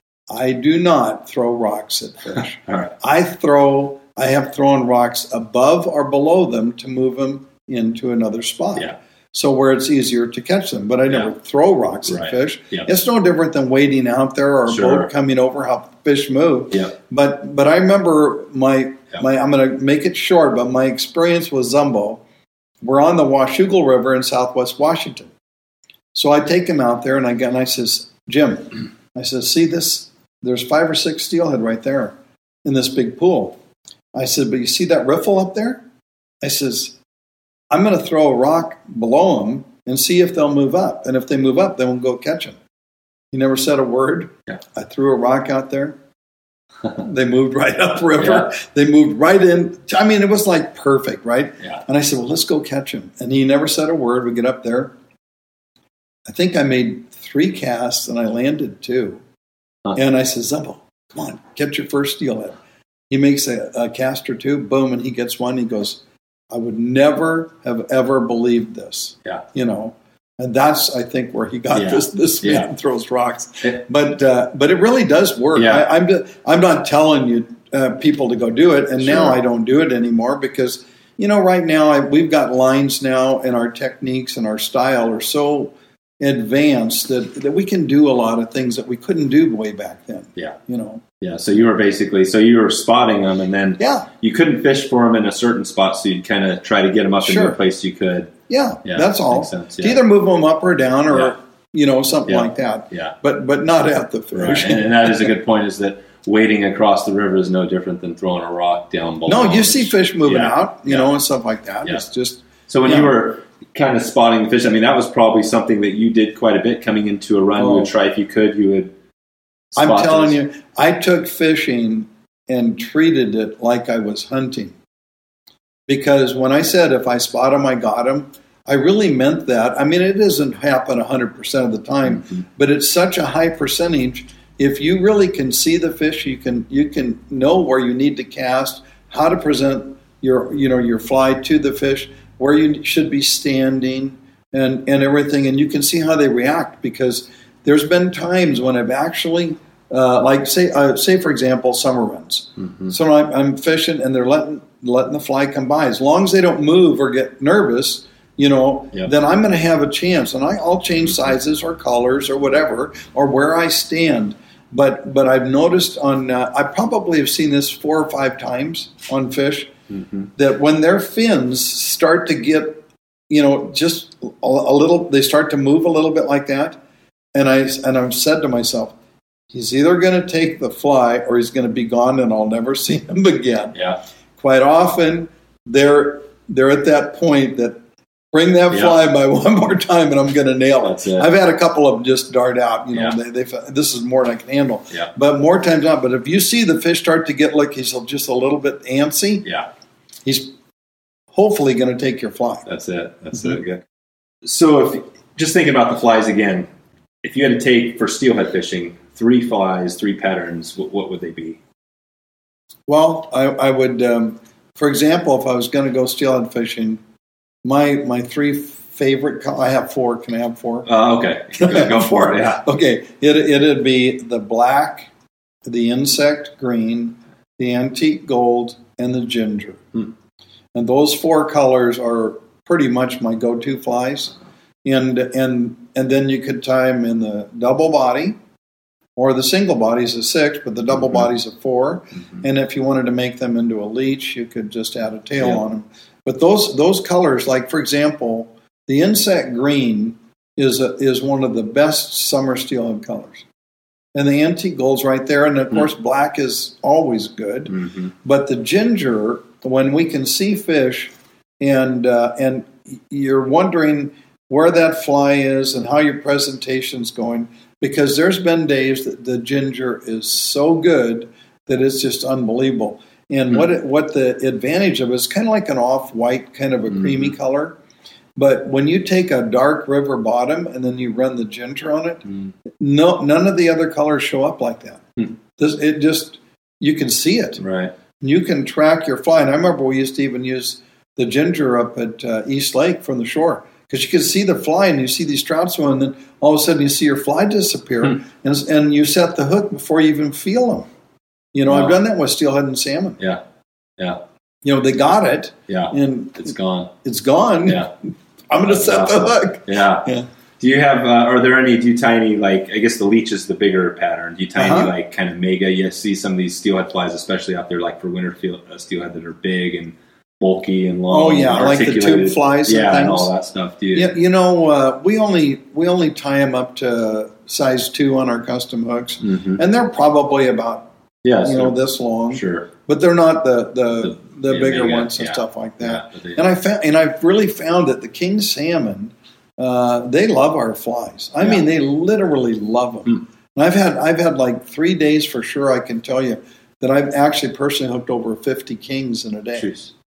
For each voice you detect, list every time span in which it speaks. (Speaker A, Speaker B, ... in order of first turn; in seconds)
Speaker A: 0.3-22.2, 22.8-25.3, 26.1-33.6, 34.1-35.8, 36.4-37.0, 37.7-42.6, 43.3-46.0, 47.0-54.9, 56.3-59.2, 60.0-62.6, 63.1-91.0, 93.8-94.1, 97.3-97.6, 98.5-105.3, 109.3-113.1, 117.6-117.9, 119.8-124.7, 125.9-169.7, 170.3-176.8, 177.3-178.9, 179.5-183.8, 184.4-187.8, 188.3-199.5, 200.2-200.5, 201.3-202.7, 212.9-217.0, 217.6-220.9, 221.6-225.1, 225.7-229.8, 230.8-234.3, 234.8-238.4, 239.2-253.4, 254.2-277.8, 278.4-282.3, 282.8-285.0, 285.6-287.6, 288.2-300.9, 301.5-303.2, 304.6-306.5, 307.0-307.8, 308.5-310.3, 314.6-314.9, 321.1-323.3, 323.9-330.9, 331.4-349.7
Speaker B: 12.1-12.9, 14.7-15.1, 48.2-48.5, 71.7-72.7, 75.5-75.9, 79.0-79.4, 91.2-98.3, 98.8-100.0, 102.3-103.2, 104.3-111.1, 112.7-118.9, 119.7-120.4, 152.6-152.9, 169.9-170.3, 188.7-189.0, 190.8-191.3, 202.7-203.8, 204.4-206.7, 207.2-211.6, 220.9-222.6, 257.7-258.1, 277.0-277.3, 287.6-287.9, 301.7-302.0, 305.7-306.9, 308.7-310.1, 310.6-324.1, 329.2-329.6, 331.2-331.8, 332.3-332.7, 334.0-336.4, 349.6-349.9